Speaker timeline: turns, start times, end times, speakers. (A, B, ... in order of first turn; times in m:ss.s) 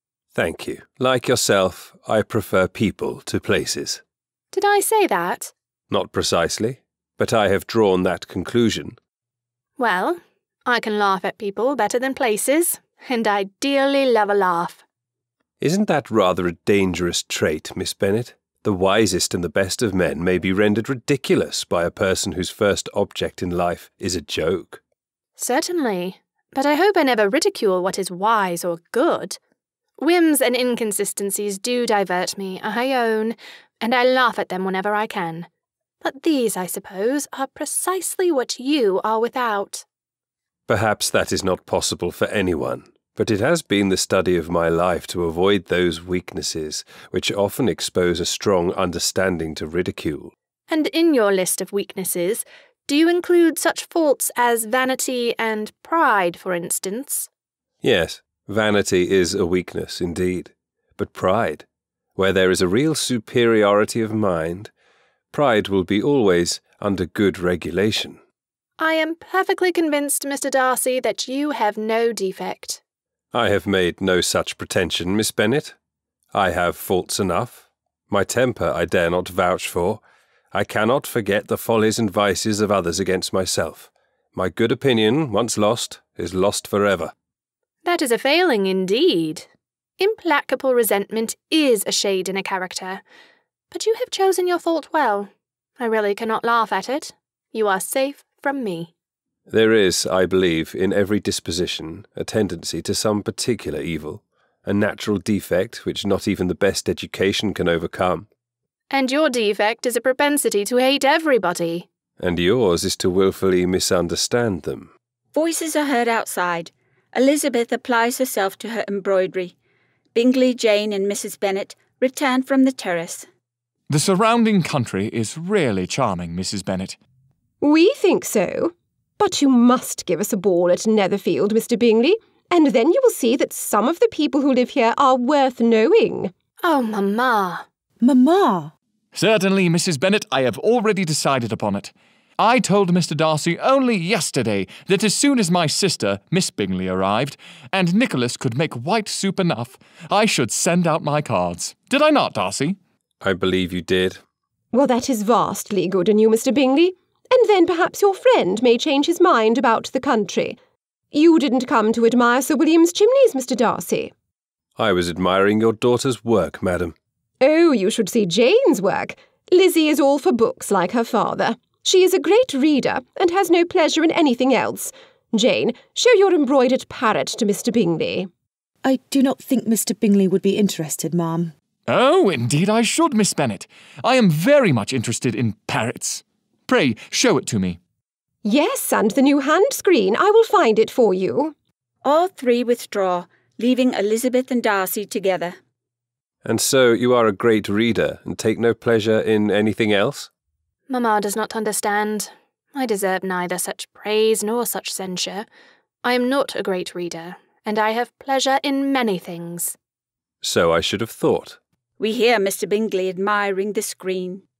0:00.4-0:04.0 A
0:04.5-0:05.5 B
0:05.9-0:09.0 A
0:09.8-0:14.8 B
0:15.6-0:24.8 A
0:25.4-0:29.4 B
0:30.0-0:35.5 B
0:36.0-0:39.8 B
0:40.7-0:50.3 A
0:50.7-0:57.3 B
0:57.8-1:01.6 A
1:02.2-1:04.7 A
1:05.3-1:08.2 A
1:08.8-1:12.8 B
1:13.3-1:15.8 A
1:16.3-1:20.0 A
1:20.5-1:27.1 A
1:27.8-1:29.5 B
1:30.0-1:33.0 B
1:33.7-1:38.9 B
1:39.5-1:48.3 A
1:48.9-1:51.9 B
1:52.2-1:54.9 A
1:55.3-1:59.6 C
2:00.1-2:03.3 C
2:03.9-2:07.0 D
2:07.6-2:16.3 E
2:16.6-2:17.6 B
2:18.0-2:18.7 F
2:19.1-2:32.8 D
2:33.2-2:34.2 A
2:34.7-2:40.6 E
2:41.1-2:44.1 E
2:44.8-2:46.9 A
2:47.4-2:58.3 E
2:58.8-3:01.5 F
3:01.9-3:07.8 D
3:08.4-3:11.6 E
3:12.0-3:15.6 C
3:16.4-3:20.3 A
3:20.9-3:25.5 B
3:26.0-3:29.8 B
3:30.4-3:31.6 A
3:32.0-3:34.4 C